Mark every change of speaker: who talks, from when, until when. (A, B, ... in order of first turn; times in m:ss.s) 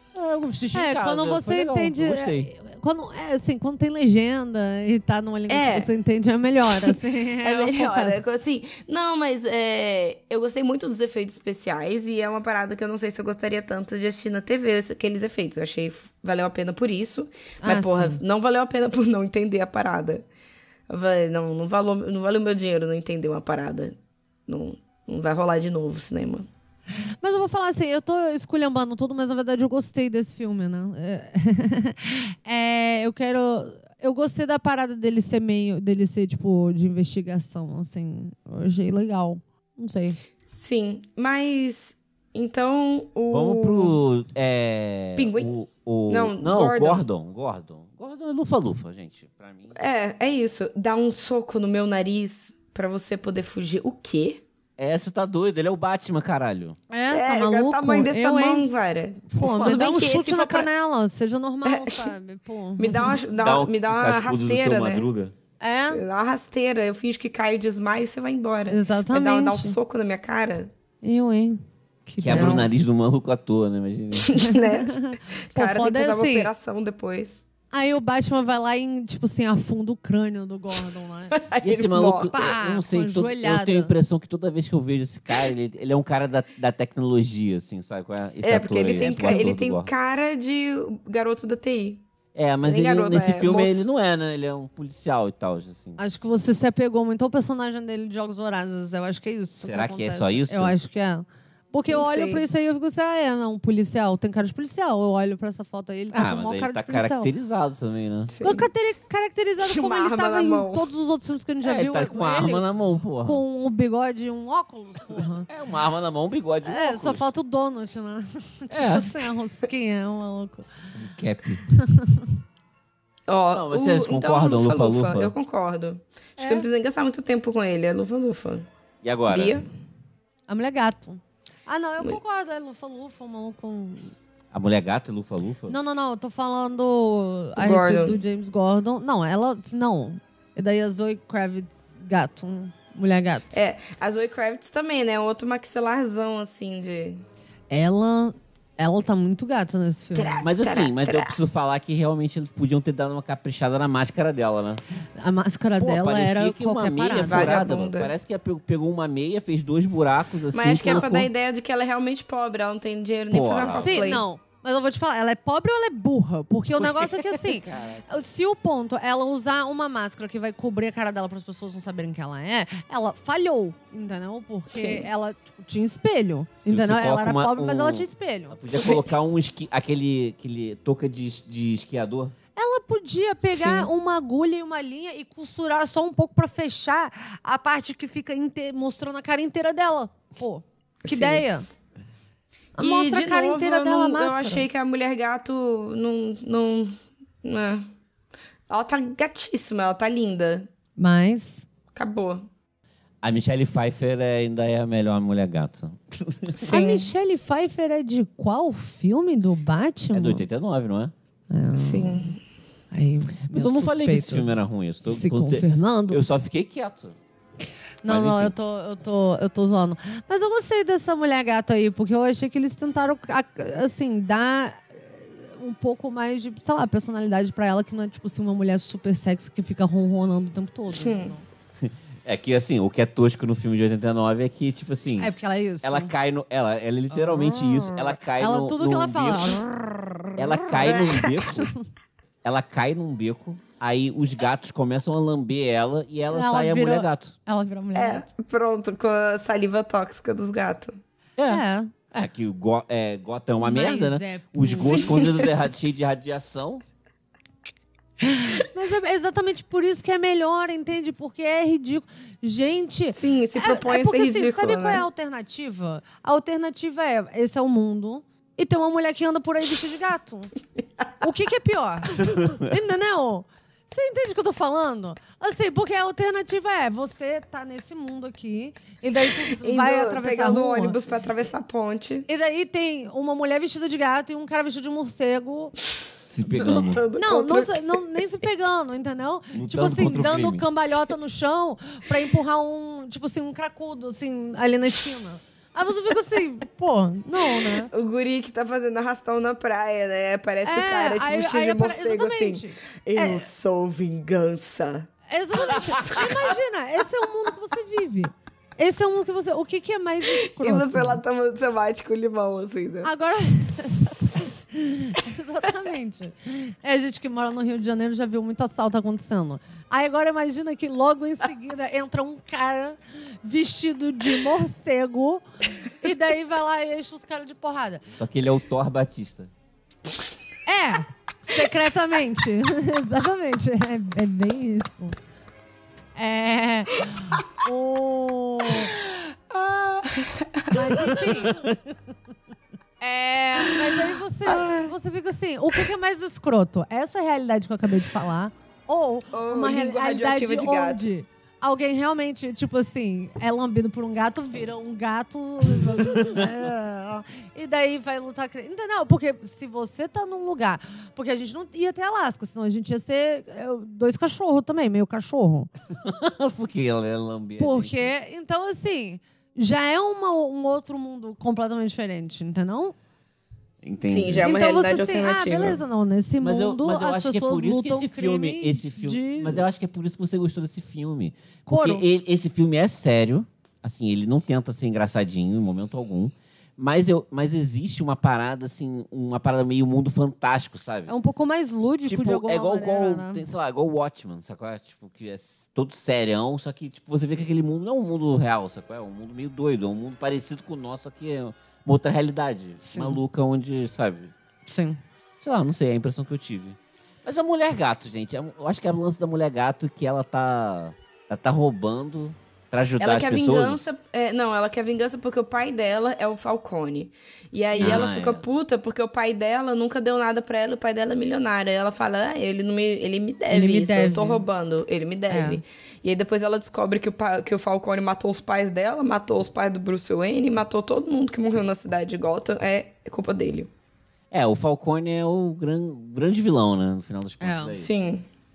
0:00.1-0:02.5 A
0:00.7-0:08.2 B
0:05.5-0:05.9 C
0:06.7-0:20.2 C
0:17.6-0:18.2 B
0:20.9-0:24.0 C
0:24.5-0:26.5 C
0:27.2-0:40.2 B
0:40.5-0:44.0 C
0:43.3-0:49.7 A
0:45.2-0:45.5 C
0:46.1-0:47.0 C
0:49.7-0:54.4 C
0:54.8-0:56.8 A
0:56.9-0:58.6 B
0:57.1-1:00.7 C
0:59.3-1:03.1 B
0:59.4-0:59.7 A
1:01.6-1:02.1 C
1:02.8-1:05.1 C
1:03.4-1:05.3 A
1:05.6-1:06.0 B
1:05.9-1:10.7 C
1:08.7-1:09.8 B
1:11.0-1:12.6 B
1:12.2-1:14.4 A
1:12.3-1:12.7 C
1:14.2-1:17.4 C
1:14.4-1:16.5 B
1:17.7-1:21.4 B
1:21.3-1:22.3 C
1:21.6-1:29.9 A
1:22.3-1:23.9 B
1:28.4-1:32.0 C
1:29.0-1:29.4 B
1:32.3-1:36.0 A
1:32.6-1:33.8 C
1:36.0-1:47.3 B
1:39.6-1:40.7 A
1:41.9-1:42.4 C
1:46.1-1:48.3 A
1:48.3-1:48.7 C
1:48.4-1:52.6 B
1:49.6-1:50.9 C
1:51.6-1:53.4 A
1:53.2-1:55.5 B
1:55.5-1:57.3 A
1:56.6-2:00.7 B
1:58.7-1:59.2 A
2:01.0-2:01.6 A
2:01.7-2:02.3 B
2:03.3-2:08.7 C
2:03.5-2:05.3 A
2:06.4-2:06.7 B
2:09.0-2:09.6 A
2:09.3-2:09.7 C
2:10.5-2:14.1 B
2:14.5-2:15.7 A
2:15.7-2:23.6 B
2:17.6-2:18.2 C
2:23.5-2:27.2 C
2:27.7-2:30.4 B
2:30.1-2:31.4 C
2:30.4-2:34.8 A
2:35.2-2:37.6 B
2:35.8-2:41.3 A
2:37.2-2:38.1 C
2:40.5-2:44.2 C
2:43.3-2:44.2 A
2:43.8-2:58.6 B
2:46.8-2:48.1 A
2:54.7-2:55.0 C
2:56.6-3:02.3 A
2:58.7-2:59.1 C
3:02.6-3:11.6 B
3:03.5-3:03.9 C
3:11.0-3:11.4 C
3:12.8-3:14.6 B
3:12.8-3:17.9 C
3:18.7-3:20.7 C
3:21.0-3:21.6 B
3:21.9-3:22.5 C
3:23.2-3:26.7 A
3:26.6-3:27.1 C
3:26.7-3:30.4 B
3:30.1-3:31.1 A
3:31.5-3:32.3 B
3:31.7-3:32.4 C
3:32.9-3:36.2 B
3:33.5-3:37.2 A
3:38.0-3:51.4 B
3:38.0-3:38.5 A
3:50.9-3:51.3 C
3:51.8-3:55.3 A
3:55.2-3:56.1 B
3:55.8-3:59.6 A
3:57.1-3:59.7 B
4:00.4-4:01.7 A
4:00.7-4:01.5 C
4:02.4-4:07.3 A
4:06.3-4:08.2 B
4:07.9-4:11.0 C
4:11.4-4:16.8 A
4:11.5-4:11.9 B
4:13.6-4:15.2 B
4:14.8-4:15.5 C
4:18.2-4:30.5 B
4:23.1-4:25.0 C
4:31.2-4:41.0 B
4:39.5-4:42.3 C
4:42.3-4:45.7 B
4:46.3-4:47.0 A
4:46.5-4:48.0 C
4:47.2-4:57.9 B
4:49.5-4:50.6 A
4:57.9-5:05.1 C
5:00.6-5:03.5 B
5:05.3-5:11.2 B
5:06.0-5:06.5 C
5:10.4-5:13.1 C
5:13.0-5:28.0 B
5:28.2-5:29.5 A
5:30.6-5:35.1 B
5:36.2-5:38.9 B
5:38.9-5:40.9 C
5:40.7-5:41.6 B
5:41.4-5:41.9 A
5:43.0-6:05.7 B
5:44.4-5:44.9 C
5:49.3-5:51.0 C
6:05.9-6:08.1 A
6:07.6-6:12.9 B
6:13.8-6:14.5 A
6:14.1-6:15.8 C
6:14.4-6:19.6 B
6:16.4-6:31.1 A
6:21.7-6:22.0 B
6:31.1-6:33.4 B
6:32.0-6:44.3 A
6:42.8-6:43.2 B
6:44.6-6:45.0 B
6:45.4-6:53.8 A
6:53.0-7:13.7 C
6:57.8-6:58.1 B
6:57.8-6:58.4 A
7:03.5-7:04.4 B
7:05.3-7:05.6 B
7:14.3-7:18.0 A
7:17.4-7:17.8 B
7:17.7-7:18.2 C